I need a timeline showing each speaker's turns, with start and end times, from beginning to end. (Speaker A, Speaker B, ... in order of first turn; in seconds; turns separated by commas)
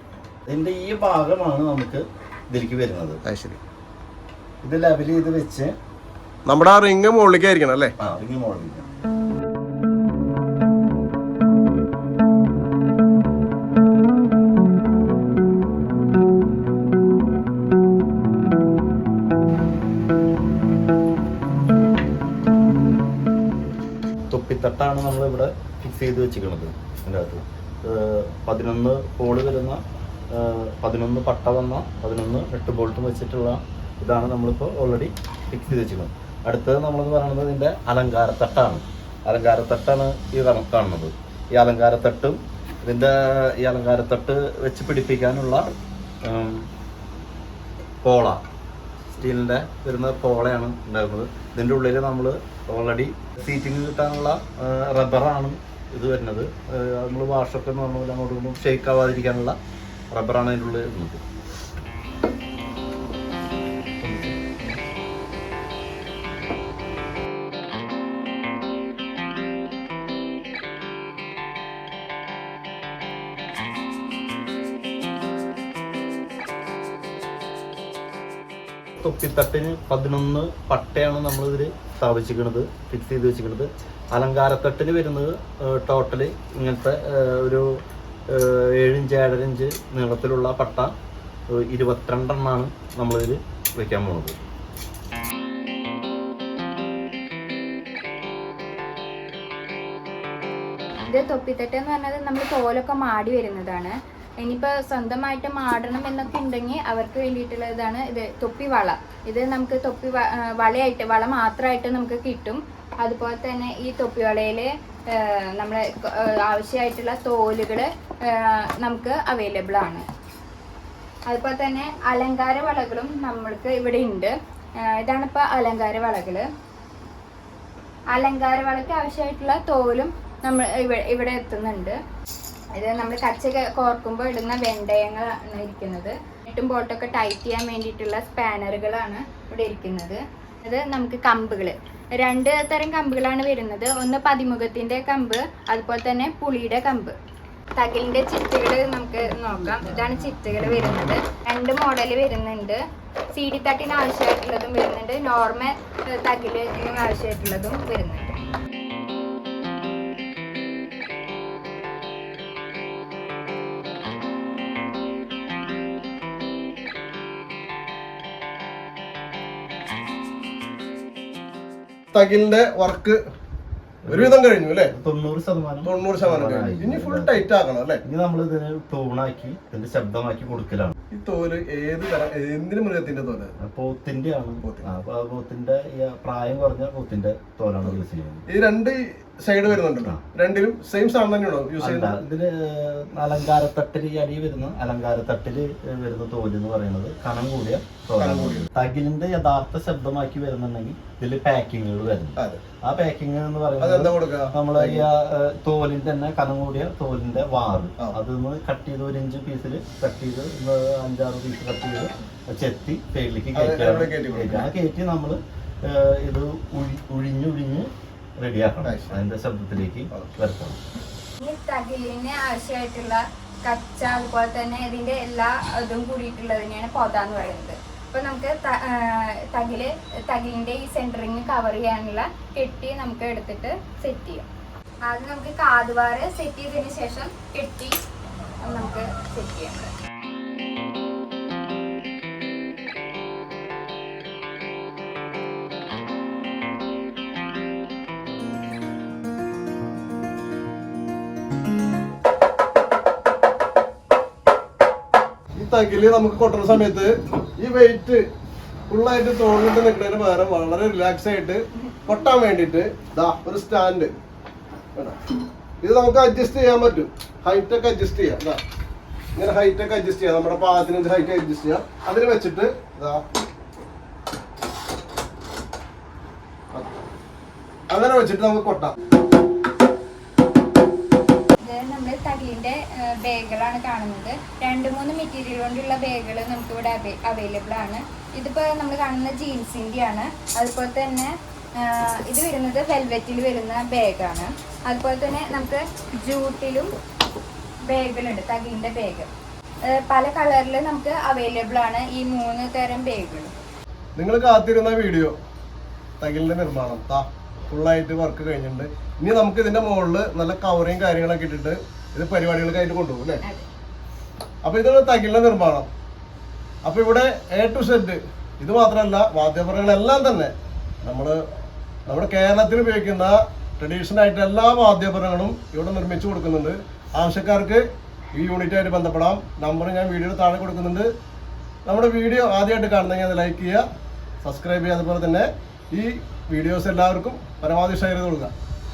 Speaker A: 0.5-3.2, Speaker B: 3.2-3.6, Speaker A: 4.6-5.7, Speaker B: 6.5-7.9, Speaker A: 8.0-8.9, Speaker A: 24.3-45.7, Speaker A: 46.2-46.7, Speaker A: 48.0-48.4, Speaker A: 49.1-59.6, Speaker A: 60.1-61.2, Speaker A: 64.0-64.8, Speaker A: 79.0-87.7, Speaker A: 88.3-90.9, Speaker A: 91.5-94.3, Speaker C: 101.1-120.0, Speaker C: 121.3-126.5, Speaker C: 128.1-132.0, Speaker C: 132.7-147.2, Speaker C: 147.8-152.8, Speaker C: 153.3-158.3, Speaker B: 172.1-173.2, Speaker A: 174.0-174.4, Speaker B: 174.1-174.9, Speaker A: 174.9-177.5, Speaker B: 175.8-178.0, Speaker A: 178.0-180.9, Speaker B: 181.1-183.5, Speaker A: 183.6-188.4, Speaker B: 188.5-192.2, Speaker A: 189.7-190.2, Speaker A: 191.8-217.9, Speaker B: 198.2-198.7, Speaker B: 203.8-205.1, Speaker B: 213.5-214.7, Speaker A: 218.4-220.8, Speaker B: 218.8-219.2, Speaker C: 221.4-234.5, Speaker C: 235.0-238.0, Speaker C: 238.6-239.9, Speaker B: 255.6-258.2, Speaker B: 258.9-264.1, Speaker B: 265.8-268.6, Speaker B: 269.3-273.2, Speaker B: 277.9-278.9, Speaker C: 281.6-296.9, Speaker C: 297.9-299.3, Speaker C: 299.9-303.5, Speaker B: 304.2-305.3, Speaker B: 306.2-313.4, Speaker B: 314.6-315.9, Speaker B: 316.9-320.5, Speaker B: 321.0-321.4, Speaker B: 322.1-327.8, Speaker B: 328.3-331.1, Speaker B: 331.9-333.8, Speaker B: 334.4-338.5